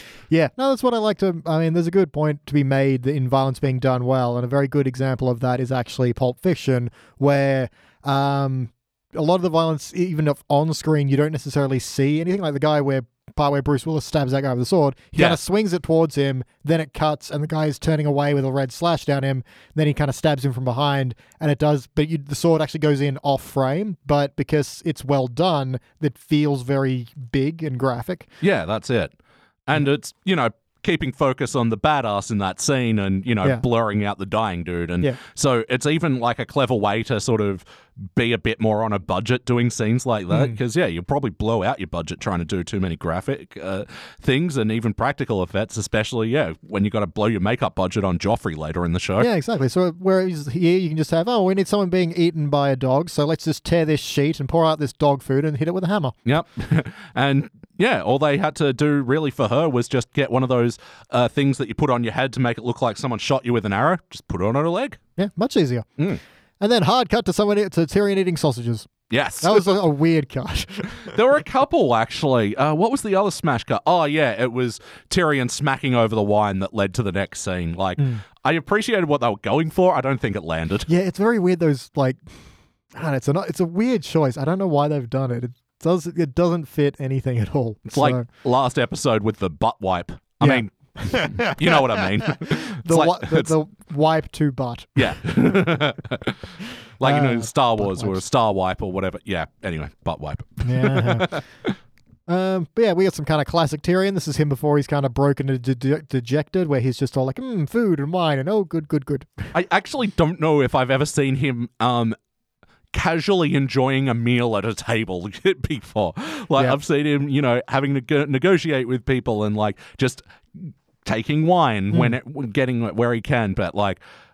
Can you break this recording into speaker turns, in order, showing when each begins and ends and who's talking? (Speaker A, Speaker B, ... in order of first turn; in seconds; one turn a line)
Speaker A: 0.3-28.3
Speaker B: 28.4-29.1
Speaker B: 29.6-49.3
Speaker A: 40.3-40.6
Speaker A: 49.2-56.1
Speaker B: 56.2-65.0
Speaker A: 65.2-65.9
Speaker A: 66.6-68.9
Speaker B: 69.1-69.7
Speaker A: 69.4-71.2
Speaker B: 71.0-80.9
Speaker A: 80.9-82.2
Speaker A: 82.9-88.2
Speaker B: 87.9-93.5
Speaker A: 90.4-95.6
Speaker B: 95.0-101.7
Speaker A: 97.0-98.2
Speaker A: 100.6-101.4
Speaker A: 102.3-109.5
Speaker B: 109.5-112.2
Speaker B: 112.9-124.0
Speaker A: 121.9-122.2